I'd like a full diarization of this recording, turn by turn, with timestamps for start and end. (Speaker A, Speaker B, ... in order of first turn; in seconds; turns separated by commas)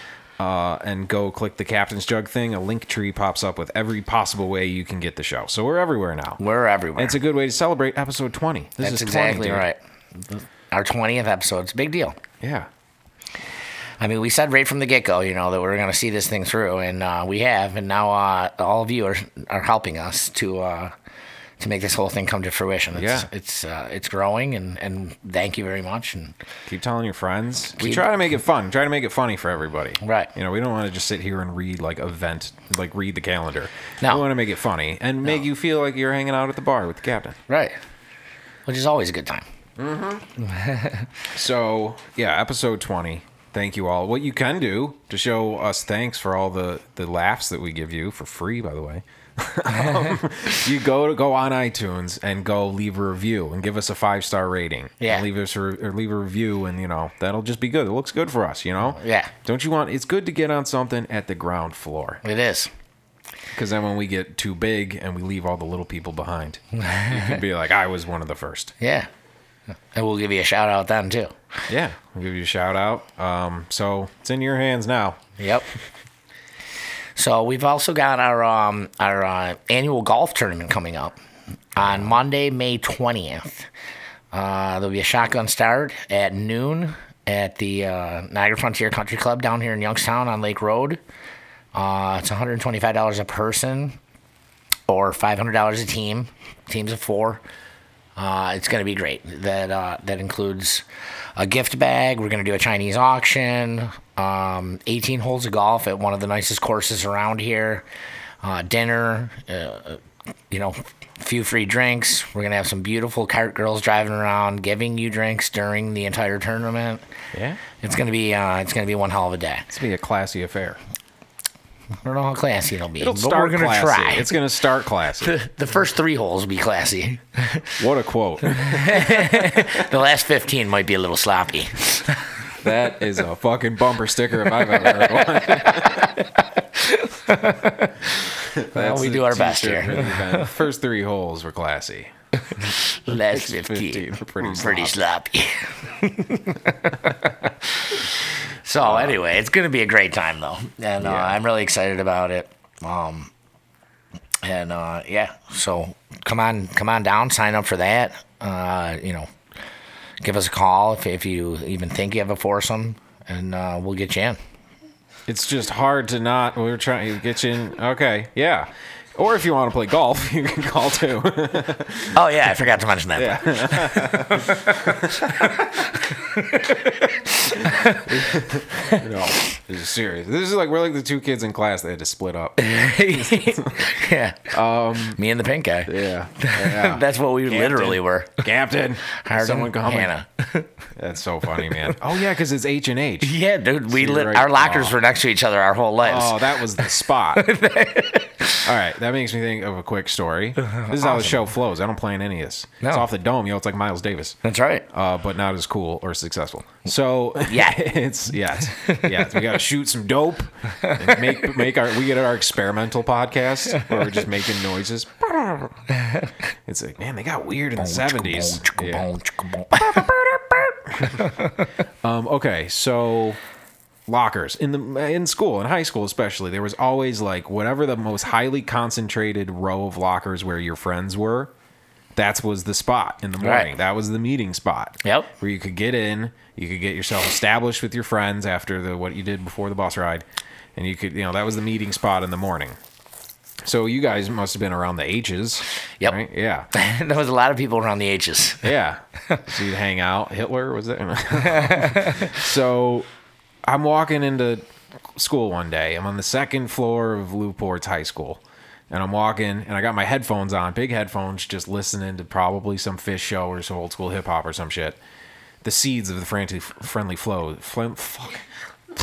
Speaker A: 0.4-6.4, Speaker B: 6.4-7.2, Speaker A: 7.0-9.7, Speaker B: 8.8-12.2, Speaker A: 12.4-12.7, Speaker B: 14.0-20.9, Speaker B: 21.6-26.3, Speaker A: 22.9-23.3, Speaker A: 26.7-37.4, Speaker B: 27.8-28.1, Speaker B: 30.0-30.3, Speaker B: 37.5-37.8, Speaker B: 38.6-39.5, Speaker A: 39.8-40.2, Speaker B: 40.4-41.0, Speaker A: 41.3-62.2, Speaker B: 55.0-55.3, Speaker B: 58.9-59.3, Speaker B: 62.2-62.7, Speaker A: 63.5-68.7, Speaker B: 66.8-67.4, Speaker B: 68.8-69.1, Speaker B: 69.9-71.3, Speaker A: 71.7-75.2, Speaker B: 75.4-75.7, Speaker B: 77.2-81.2, Speaker B: 81.7-83.7, Speaker A: 81.8-82.1, Speaker B: 84.3-91.0, Speaker B: 91.7-94.0, Speaker B: 94.9-97.4, Speaker B: 98.2-100.8, Speaker B: 101.3-107.8, Speaker B: 108.4-117.0, Speaker A: 117.3-117.6, Speaker B: 117.8-119.7, Speaker A: 119.7-120.8, Speaker B: 122.0-124.3, Speaker A: 123.0-125.4, Speaker B: 125.2-127.8, Speaker A: 127.8-129.7, Speaker B: 128.6-132.2, Speaker A: 132.6-136.2, Speaker B: 134.8-136.2, Speaker B: 136.8-140.5, Speaker A: 138.5-142.1, Speaker B: 142.6-148.1, Speaker A: 143.1-144.9, Speaker B: 148.6-153.3, Speaker A: 148.8-149.2, Speaker A: 151.0-151.4, Speaker B: 154.4-159.3, Speaker B: 160.2-164.4, Speaker A: 165.3-172.2, Speaker B: 172.1-178.3, Speaker A: 173.2-175.7, Speaker A: 177.6-183.9, Speaker B: 182.6-184.6, Speaker A: 184.5-185.2, Speaker B: 185.1-188.5, Speaker A: 185.9-190.1, Speaker B: 189.2-190.7, Speaker A: 191.0-193.3, Speaker B: 191.6-191.9, Speaker B: 193.2-198.7, Speaker A: 193.9-194.9, Speaker A: 196.0-197.5, Speaker A: 198.6-204.3, Speaker B: 200.6-201.4, Speaker B: 202.8-203.1, Speaker B: 204.4-204.8, Speaker A: 204.9-215.8, Speaker B: 207.4-207.9, Speaker B: 208.8-209.2, Speaker B: 210.8-211.2, Speaker A: 216.7-219.1, Speaker B: 217.8-220.1, Speaker A: 219.7-221.3, Speaker B: 221.1-221.5, Speaker A: 222.0-223.4, Speaker A: 224.1-231.5, Speaker A: 232.2-240.2, Speaker B: 233.4-233.7, Speaker B: 235.0-235.3, Speaker A: 240.8-242.8, Speaker A: 243.6-246.7, Speaker B: 246.7-248.7, Speaker A: 248.6-253.1, Speaker B: 251.6-252.3, Speaker A: 253.7-265.0, Speaker A: 265.6-268.4